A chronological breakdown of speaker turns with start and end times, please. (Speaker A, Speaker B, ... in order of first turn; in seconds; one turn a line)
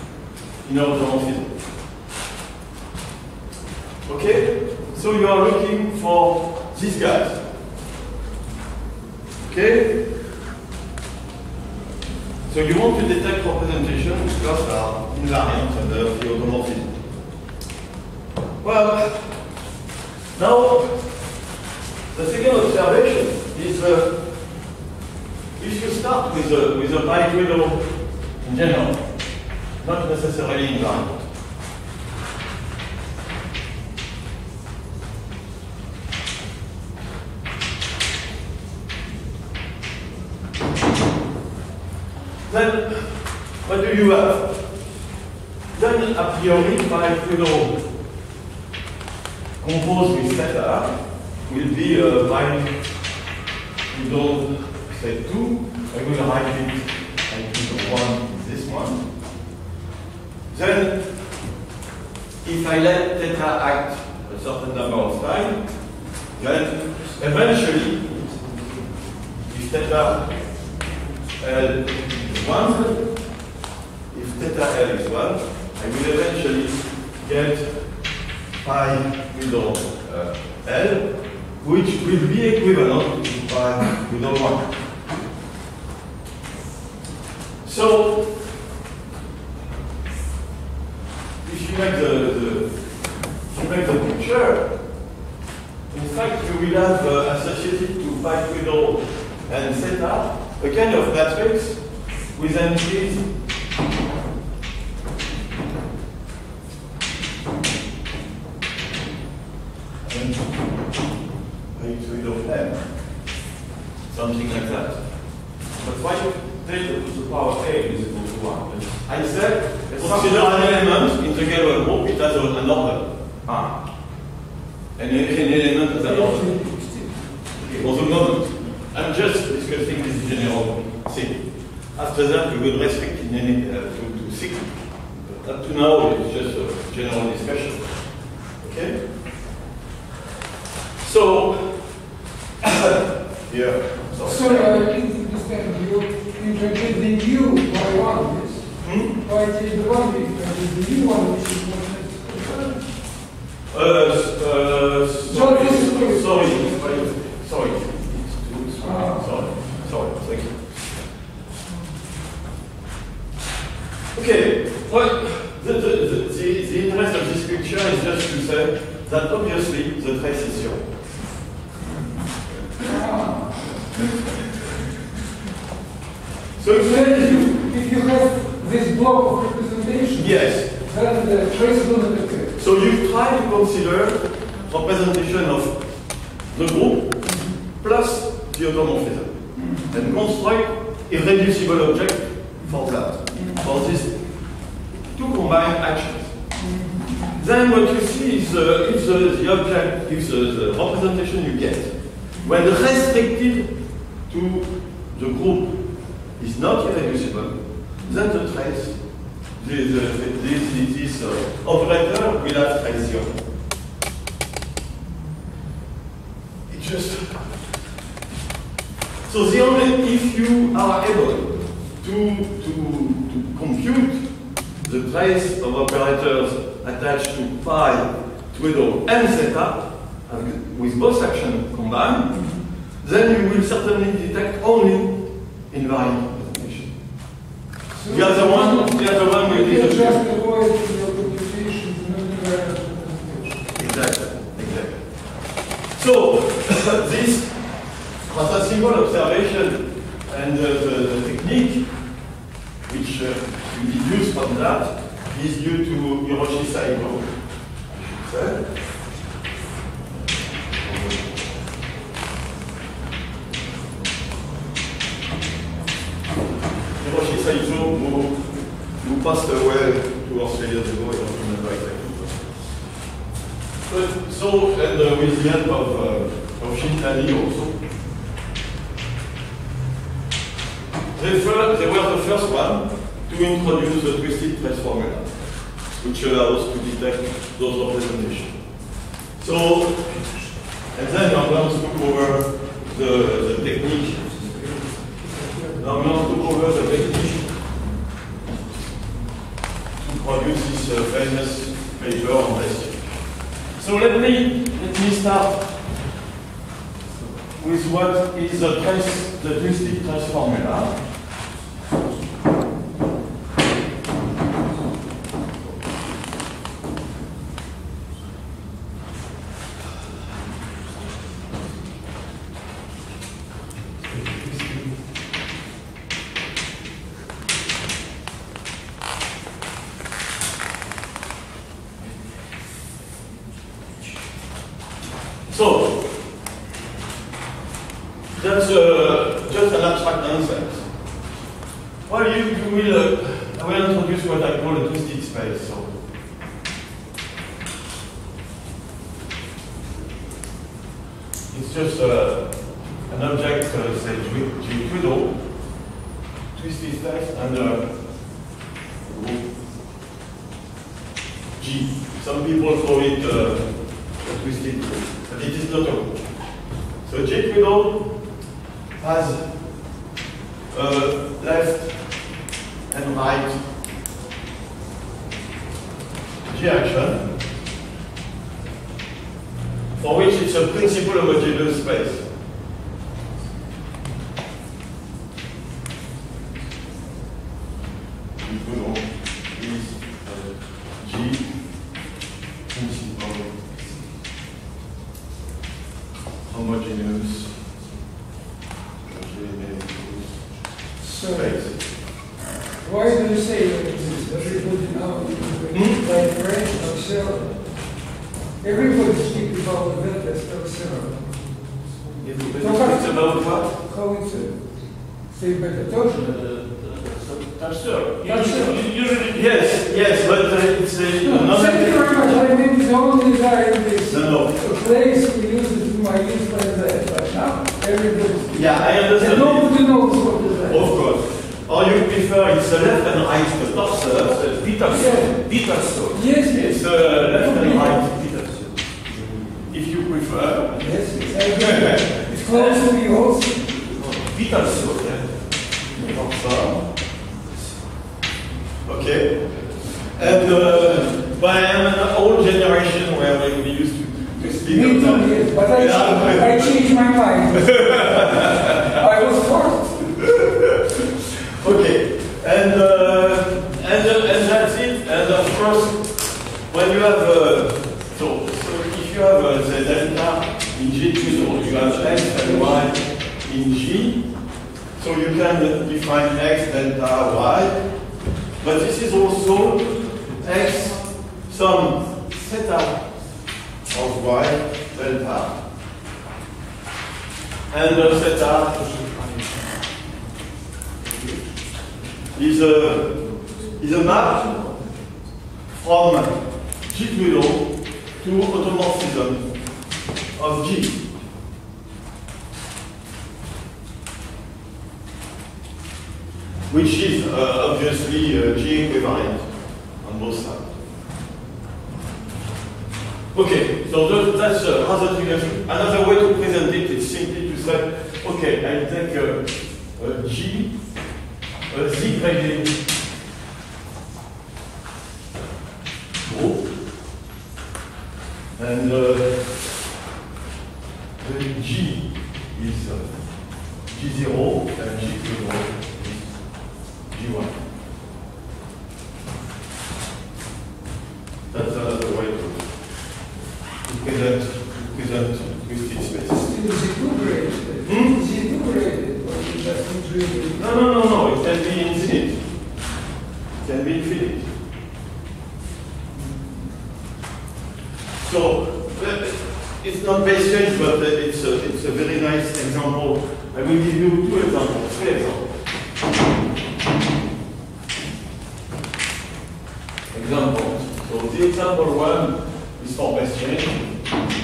Speaker A: 0.6-1.5
Speaker A: 4.0-7.4
Speaker A: 9.4-10.1
Speaker A: 12.5-16.9
Speaker A: 18.6-19.4
Speaker A: 20.3-21.1
Speaker A: 22.1-24.1
Speaker A: 25.6-27.9
Speaker A: 28.4-29.0
Speaker A: 29.8-31.3
Speaker A: 42.5-44.6
Speaker A: 45.7-47.8
Speaker A: 49.6-50.9
Speaker A: 51.5-52.7
Speaker A: 53.9-59.0
Speaker A: 60.5-61.0
Speaker A: 62.4-65.6
Speaker A: 66.3-68.7
Speaker A: 69.4-70.3
Speaker A: 71.4-73.1
Speaker A: 74.1-77.8
Speaker A: 78.6-84.7
Speaker A: 87.6-88.3
Speaker A: 91.4-92.7
Speaker A: 93.5-94.7
Speaker A: 95.9-103.3
Speaker A: 110.0-110.7
Speaker A: 111.7-112.8
Speaker A: 114.1-115.0
Speaker B: 115.8-119.1
Speaker A: 119.0-123.1
Speaker B: 119.9-120.8
Speaker B: 123.4-123.8
Speaker A: 125.0-126.5
Speaker C: 126.0-127.2
Speaker B: 127.6-128.1
Speaker A: 127.8-131.4
Speaker A: 131.9-137.9
Speaker A: 138.6-139.0
Speaker A: 141.0-141.8
Speaker A: 142.6-144.8
Speaker C: 144.2-152.8
Speaker A: 148.8-149.2
Speaker A: 153.7-160.9
Speaker C: 155.2-157.1
Speaker C: 158.8-159.4
Speaker A: 164.1-170.9
Speaker C: 172.8-173.7
Speaker A: 173.9-174.6
Speaker A: 176.6-177.5
Speaker C: 176.7-182.5
Speaker A: 180.1-180.7
Speaker A: 182.6-185.8
Speaker A: 186.4-194.1
Speaker C: 187.3-187.5
Speaker C: 189.6-189.9
Speaker C: 193.3-193.6
Speaker A: 195.1-196.3
Speaker C: 196.6-197.3
Speaker A: 197.3-203.7
Speaker A: 204.3-205.8
Speaker A: 206.4-208.9
Speaker A: 209.6-213.4
Speaker A: 216.7-217.4
Speaker A: 219.3-224.2
Speaker A: 224.8-232.4
Speaker C: 232.3-232.6
Speaker A: 233.0-235.1
Speaker A: 235.7-236.9
Speaker C: 237.9-243.7
Speaker A: 238.1-240.2
Speaker A: 243.8-245.0
Speaker A: 245.9-247.6
Speaker A: 248.3-251.9
Speaker A: 252.9-257.3
Speaker A: 257.9-258.6
Speaker A: 260.8-261.5
Speaker A: 267.0-272.5
Speaker A: 273.9-277.8
Speaker A: 281.1-288.6
Speaker A: 289.4-290.1
Speaker A: 290.9-294.3
Speaker A: 295.7-297.5
Speaker A: 300.0-303.1
Speaker A: 303.7-305.6
Speaker A: 307.6-310.9
Speaker A: 324.5-324.7
Speaker A: 335.5-336.1
Speaker A: 338.3-340.9
Speaker A: 342.1-345.9
Speaker A: 351.5-352.5
Speaker A: 353.1-355.4
Speaker A: 356.5-357.9
Speaker A: 359.0-359.4
Speaker A: 361.6-366.2
Speaker A: 367.0-368.1
Speaker A: 369.0-369.5
Speaker A: 370.7-372.0
Speaker A: 372.9-373.6
Speaker A: 376.4-377.2
Speaker A: 380.0-382.2
Speaker A: 388.4-391.5
Speaker A: 392.7-393.6
Speaker A: 396.4-397.6
Speaker A: 399.0-400.6
Speaker C: 401.0-401.5
Speaker A: 401.1-401.8
Speaker C: 402.8-407.5
Speaker A: 405.7-406.0
Speaker C: 408.6-411.2
Speaker B: 412.2-412.9
Speaker A: 412.2-413.7
Speaker C: 412.6-414.6
Speaker C: 415.3-416.3
Speaker B: 416.1-419.6
Speaker C: 418.2-418.8
Speaker A: 419.3-422.4
Speaker C: 421.2-430.9
Speaker A: 424.1-424.5
Speaker A: 428.5-429.8
Speaker A: 430.7-434.4
Speaker B: 434.3-436.2
Speaker C: 434.9-435.3
Speaker C: 436.1-438.0
Speaker A: 436.5-438.2
Speaker B: 437.7-439.6
Speaker A: 439.7-442.8
Speaker C: 440.8-443.8
Speaker B: 443.9-445.4
Speaker A: 445.9-446.8
Speaker A: 448.8-456.8
Speaker C: 454.6-460.1
Speaker A: 457.5-459.0
Speaker A: 460.2-461.0
Speaker A: 461.5-466.1
Speaker A: 466.7-474.2
Speaker A: 475.0-477.8
Speaker A: 478.6-483.1
Speaker A: 483.9-485.6
Speaker A: 487.7-488.9
Speaker B: 488.8-489.6
Speaker B: 491.0-491.4
Speaker A: 492.3-494.7
Speaker A: 495.7-499.5
Speaker A: 500.3-501.0
Speaker A: 506.7-509.5
Speaker A: 510.0-510.8
Speaker A: 513.3-520.7
Speaker A: 521.7-522.8
Speaker A: 526.2-526.6
Speaker A: 528.5-529.6
Speaker A: 531.2-533.1
Speaker A: 533.9-536.3
Speaker A: 537.1-537.6
Speaker A: 541.5-542.7
Speaker A: 543.8-546.5
Speaker C: 546.3-550.7
Speaker A: 547.9-548.2
Speaker A: 550.5-552.4
Speaker A: 553.6-554.5
Speaker A: 558.2-565.5
Speaker A: 570.1-573.9